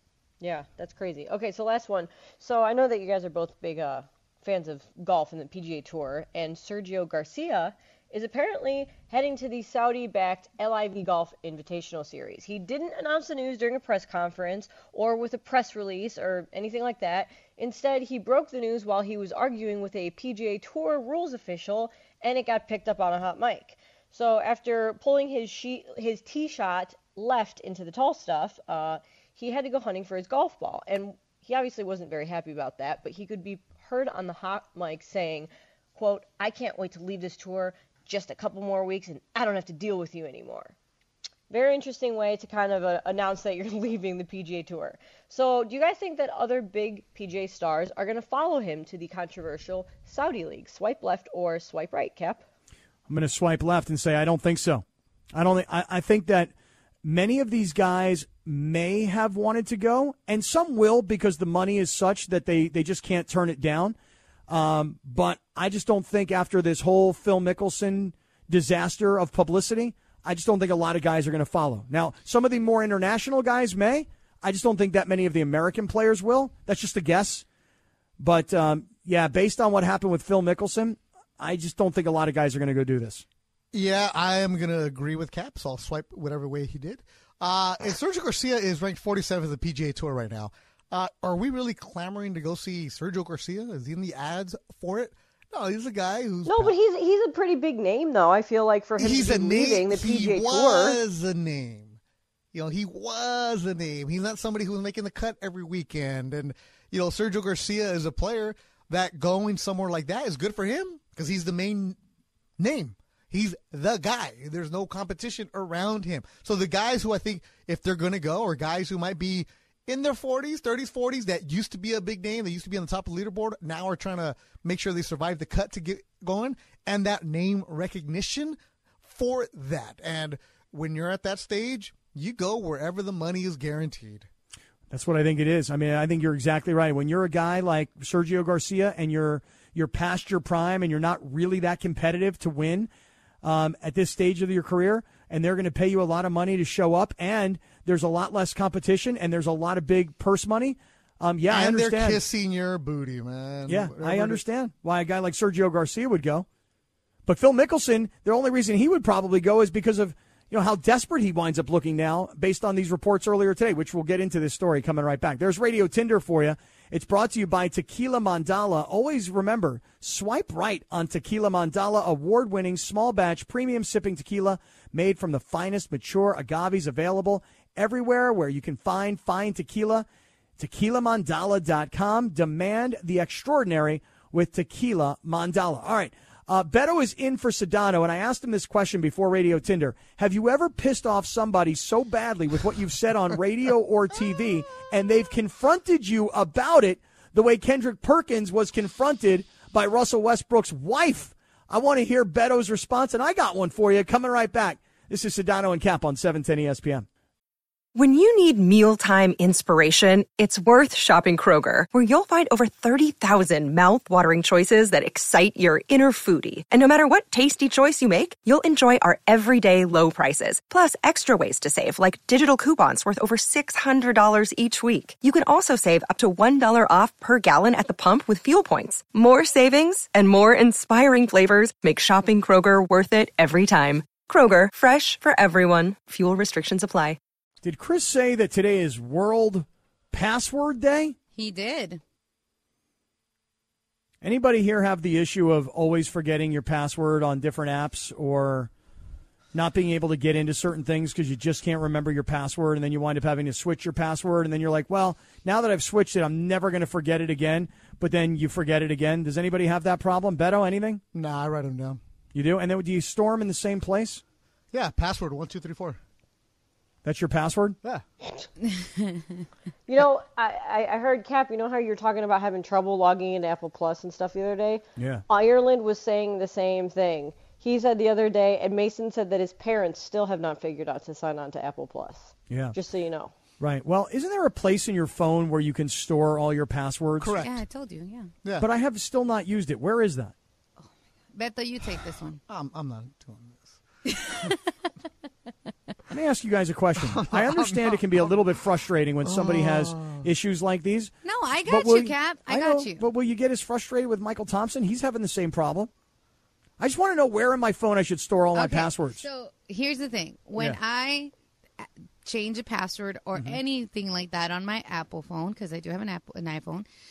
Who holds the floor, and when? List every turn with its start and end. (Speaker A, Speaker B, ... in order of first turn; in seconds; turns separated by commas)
Speaker A: 0.4-40.7, Speaker A: 41.5-52.4, Speaker B: 53.1-56.5, Speaker B: 57.0-64.0, Speaker B: 64.5-77.4, Speaker B: 78.2-83.2, Speaker C: 83.7-96.7, Speaker A: 96.5-101.0, Speaker C: 99.0-102.0, Speaker C: 102.5-112.0, Speaker C: 112.6-134.3, Speaker B: 134.9-142.9, Speaker B: 143.4-152.2, Speaker C: 151.5-154.4, Speaker B: 153.7-156.4, Speaker B: 157.2-180.1, Speaker B: 180.6-207.1, Speaker D: 207.9-237.2, Speaker B: 237.6-241.2, Speaker E: 241.3-242.0, Speaker B: 244.2-248.7, Speaker B: 249.5-261.0, Speaker C: 261.1-262.0, Speaker B: 262.3-264.2, Speaker C: 264.7-266.0, Speaker B: 267.0-267.8, Speaker E: 268.6-269.2, Speaker A: 269.9-283.3, Speaker B: 275.0-275.2, Speaker B: 283.6-287.4, Speaker C: 287.2-287.6, Speaker E: 287.4-288.3, Speaker B: 288.6-290.3, Speaker E: 290.8-292.4, Speaker C: 292.5-293.8, Speaker E: 294.1-294.6, Speaker B: 296.1-301.1, Speaker C: 297.1-298.3, Speaker C: 299.2-300.3, Speaker E: 301.2-303.1, Speaker B: 301.6-305.9, Speaker B: 306.8-309.2, Speaker E: 308.5-316.9